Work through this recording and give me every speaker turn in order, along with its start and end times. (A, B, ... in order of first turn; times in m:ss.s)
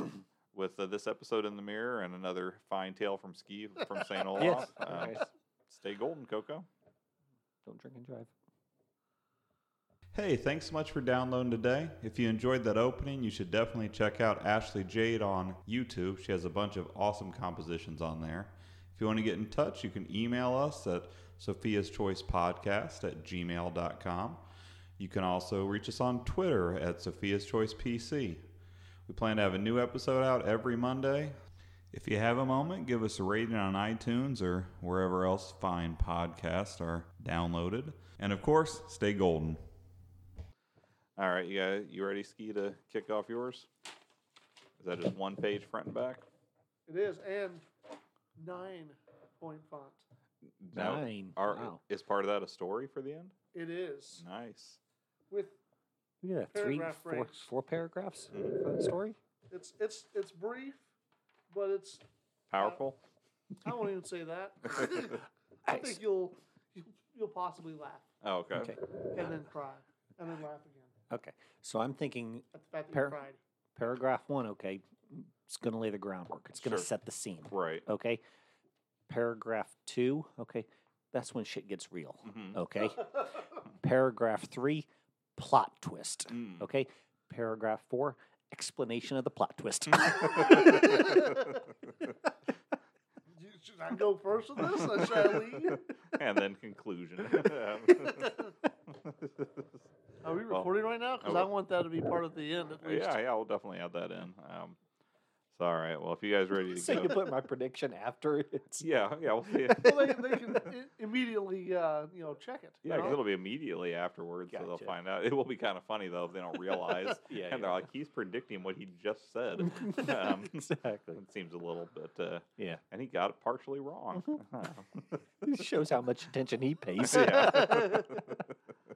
0:00.5-0:06.7 A
0:04.4-0:05.3 B
0:07.6-0:08.3 B
0:10.1-0:24.4 A
0:25.0-0:28.4 A
0:29.1-0:31.3 A
0:31.9-0:39.6 A
0:41.2-0:43.7 A
0:44.8-0:46.2 A
0:46.9-0:47.6 C
0:48.4-0:50.0 C
0:50.6-0:53.3 A
0:50.7-0:51.8 B
0:53.5-0:54.2 C
0:54.2-0:54.8 A
0:55.3-0:55.6 C
0:56.2-0:59.2 B
0:56.5-0:57.5 C
0:58.3-0:58.6 A
0:59.5-1:00.8 C
1:01.5-1:02.0 C
1:02.5-1:03.0 A
1:03.6-1:08.1 C
1:05.7-1:06.0 B
1:08.2-1:08.8 A
1:08.5-1:08.8 B
1:09.1-1:10.9 C
1:11.1-1:13.2 B
1:12.5-1:13.4 C
1:13.8-1:18.2 B
1:16.6-1:16.9 A
1:17.5-1:17.8 A
1:19.1-1:31.1 B
1:22.2-1:22.6 A
1:26.3-1:26.6 A
1:30.5-1:31.0 A
1:30.6-1:31.5 C
1:33.4-1:35.8 C
1:34.8-1:38.3 A
1:38.0-1:38.5 C
1:38.9-1:39.7 A
1:40.2-1:43.2 C
1:41.2-1:41.5 A
1:42.8-1:44.8 A
1:45.5-1:47.2 A
1:46.6-1:48.8 B
1:48.8-1:50.1 A
1:49.6-1:50.7 B
1:49.8-1:53.2 C
1:52.8-2:05.2 A
1:54.5-1:54.9 B
1:57.1-1:57.8 B
1:59.7-2:01.2 B
2:05.4-2:08.1 B
2:07.0-2:08.2 A
2:07.4-2:08.0 C